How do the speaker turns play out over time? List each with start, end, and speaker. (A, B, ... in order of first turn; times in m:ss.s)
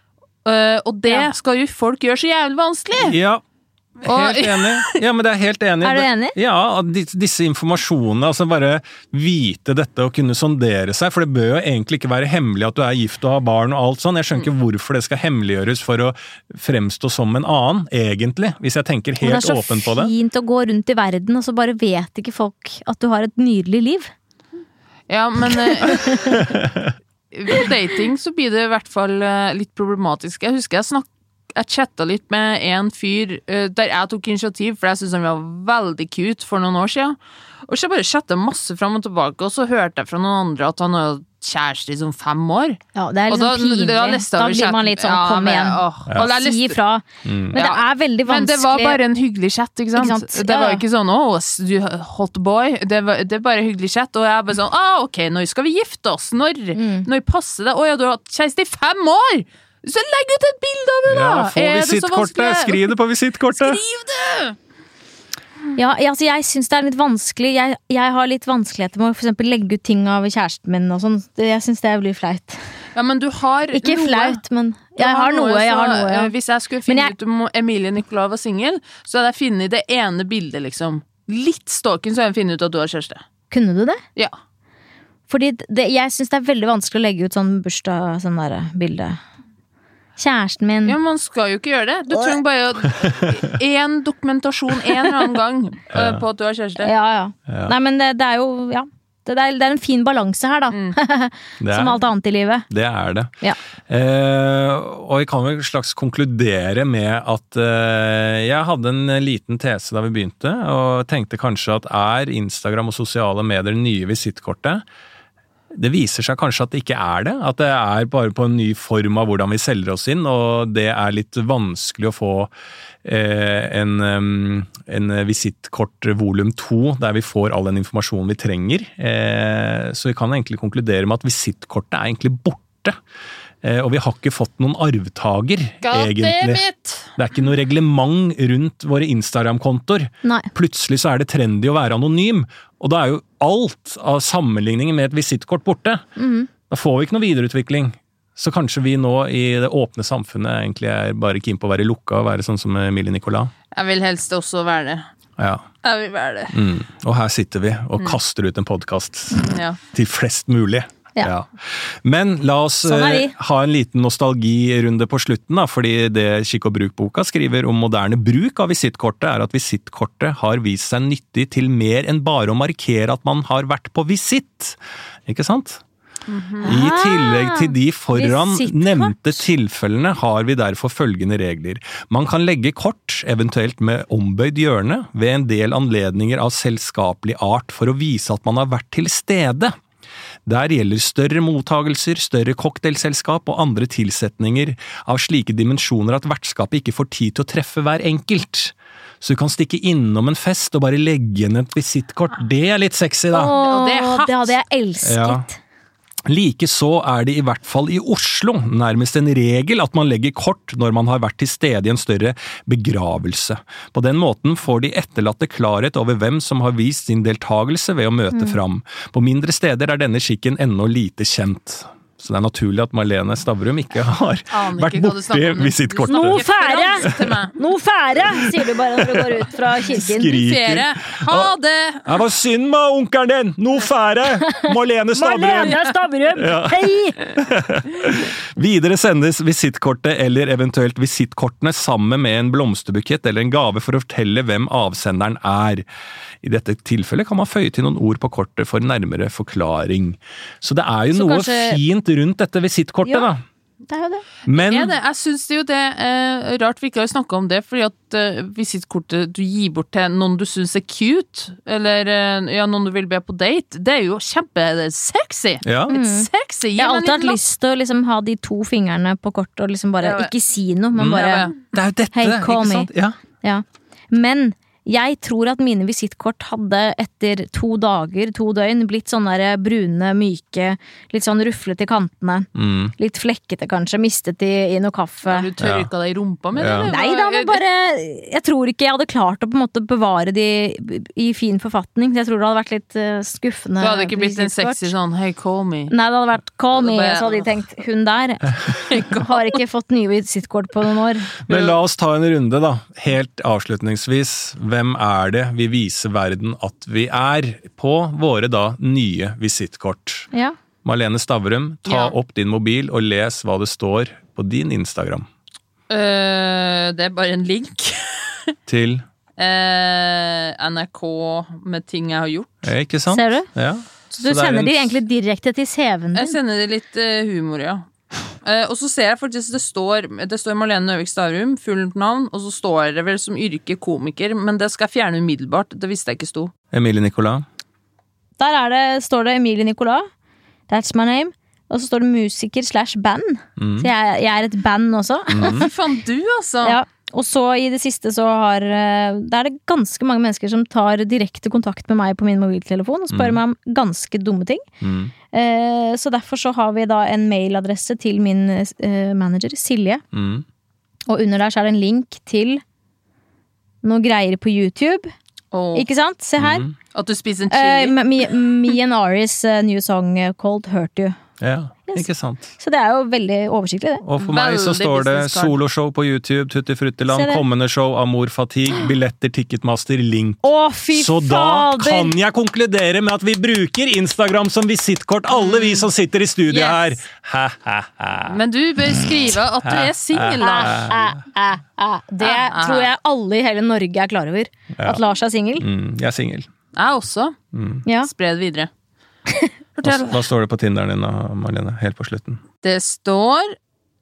0:00.4-0:03.2 A
0:03.0-0:03.4 B
0:04.0-0:20.1 B
0:04.0-0:05.0 A
0:05.8-0:06.4 C
0:19.2-0:24.1 C
0:25.1-0:26.4 A
0:25.6-0:26.5 C
0:26.3-0:26.9 B
0:27.3-0:46.8 A
0:43.0-0:49.0 C
0:47.2-0:47.6 B
0:47.5-1:02.9 A
0:50.0-0:50.8 C
0:56.7-0:57.1 C
1:01.1-1:03.8 B
1:03.5-1:04.6 A
1:05.8-1:12.6 C
1:13.0-1:14.4 A
1:13.7-1:16.3 C
1:15.0-1:23.2 A
1:16.9-1:17.1 C
1:23.5-1:24.0 C
1:25.3-1:29.2 C
1:30.2-1:31.0 C
1:30.8-1:36.9 A
1:35.9-1:36.2 B
1:36.8-1:42.7 C
1:37.5-1:37.7 B
1:40.7-1:41.0 A
1:41.6-1:42.0 B
1:42.7-1:43.3 B
1:43.9-1:54.8 B
1:55.7-2:02.5 B
2:03.0-2:13.0 B
2:13.6-2:16.6 B
2:15.8-2:17.1 A
2:17.2-2:26.1 B
2:20.2-2:20.5 C
2:26.2-2:26.5 C
2:26.7-2:33.5 B
2:33.7-2:35.1 A
2:35.4-2:35.7 B
2:35.8-2:36.6 A
2:36.5-2:55.8 B
2:39.4-2:39.8 A
2:42.8-2:43.4 C
2:56.3-2:56.7 A
2:56.6-2:59.4 C
2:56.6-3:09.7 B
3:10.5-3:23.6 B
3:23.3-3:25.6 C
3:23.4-3:24.6 A
3:25.0-3:25.5 B
3:26.3-3:46.4 B
3:38.3-3:38.6 C
3:44.5-3:47.6 A
3:46.1-3:50.4 C
3:47.0-3:47.4 B
3:48.3-3:51.5 B
3:50.0-3:52.1 A
3:52.0-3:55.8 B
3:54.4-3:57.2 C
3:56.4-4:05.8 B
4:06.4-4:13.4 B
4:11.1-4:11.8 C
4:13.9-4:14.2 C
4:14.5-4:14.9 B
4:14.5-4:27.4 A
4:25.6-4:25.9 B
4:25.9-4:31.5 C
4:30.0-4:30.3 A
4:31.0-4:33.2 B
4:31.0-4:31.6 A
4:32.1-4:32.9 C
4:33.4-4:45.5 C
4:42.6-4:42.9 B
4:45.3-4:47.6 A
4:45.6-4:45.9 B
4:46.6-4:46.9 B
4:46.9-4:54.9 C
4:53.8-4:55.9 A
4:55.9-5:01.4 C
4:56.8-4:57.5 A
4:58.7-4:59.6 A
5:01.5-5:10.3 B
5:01.5-5:01.8 A
5:10.8-5:15.3 B
5:11.9-5:12.2 A
5:15.9-5:18.5 A
5:18.7-5:19.0 B
5:19.4-5:22.6 A
5:22.6-5:25.0 B
5:23.1-5:23.5 C
5:24.2-5:26.4 C
5:26.2-5:27.9 A
5:28.4-5:36.5 A
5:36.7-5:37.4 B
5:38.4-5:40.1 C
5:40.7-5:45.7 C
5:43.6-5:43.9 B
5:45.3-5:45.7 B
5:45.4-5:46.8 A
5:46.6-5:54.6 C
5:53.1-5:53.4 B
5:54.8-5:55.1 B
5:55.3-6:00.0 C
6:00.1-6:00.4 B
6:01.1-6:02.6 C
6:03.8-6:05.1 C
6:05.5-6:05.9 A
6:05.8-6:06.7 C
6:06.4-6:06.7 B
6:06.9-6:08.2 A
6:07.5-6:11.2 C
6:11.4-6:12.5 B
6:11.9-6:14.0 C
6:14.0-6:28.4 B
6:14.2-6:15.6 A
6:17.1-6:17.4 C
6:20.4-6:22.1 C
6:25.3-6:25.9 A
6:26.5-6:26.9 A
6:28.3-6:30.9 A
6:29.6-6:31.2 B
6:30.4-6:35.7 C
6:32.2-6:32.9 A
6:35.6-6:36.5 B
6:36.7-6:37.4 A
6:37.5-6:37.8 B
6:38.0-6:38.7 A
6:39.8-6:40.2 A
6:39.8-6:42.4 B
6:42.6-6:43.6 A